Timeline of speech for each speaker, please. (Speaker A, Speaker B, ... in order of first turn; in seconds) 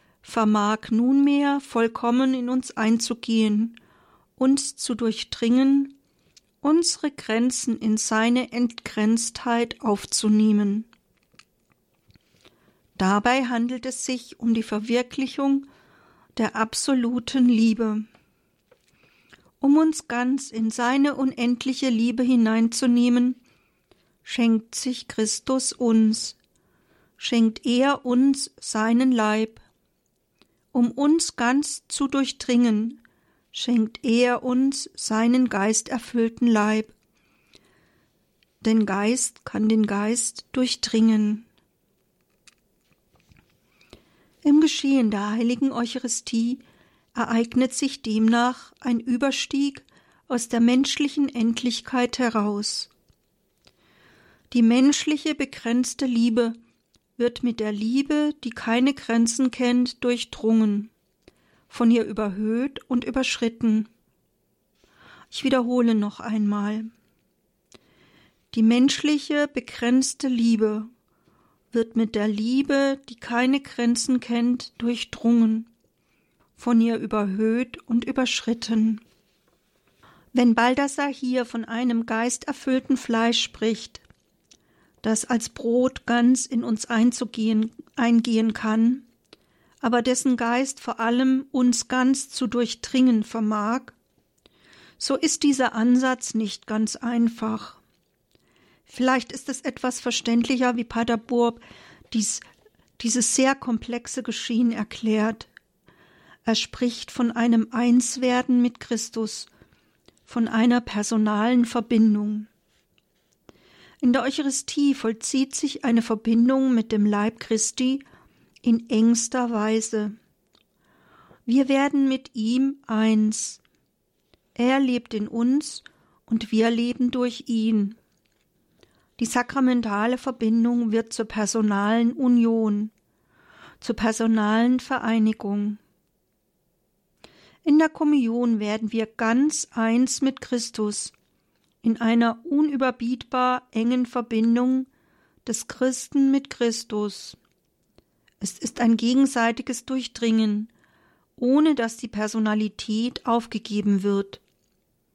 Speaker A: 0.2-3.8, 4.4-6.0, 6.6-10.9, 13.0-15.7, 16.4-18.1, 19.6-23.4, 24.2-26.4, 27.2-29.6, 30.7-33.0, 33.5-36.9, 38.6-41.5, 44.4-46.6, 47.1-52.9, 54.5-56.6, 57.2-60.9, 61.7-63.9, 65.3-66.9, 68.5-70.9, 71.7-75.7, 76.6-79.0, 80.3-84.0, 85.0-89.1, 89.8-94.0, 95.0-97.8, 98.9-102.5, 103.0-105.5, 106.5-109.5, 110.3-112.5, 114.0-118.0, 118.6-120.2, 121.5-123.6, 124.5-128.0, 129.2-132.9, 133.8-135.8, 137.7-141.1, 141.8-144.9, 145.4-147.4, 148.4-150.7, 151.4-154.4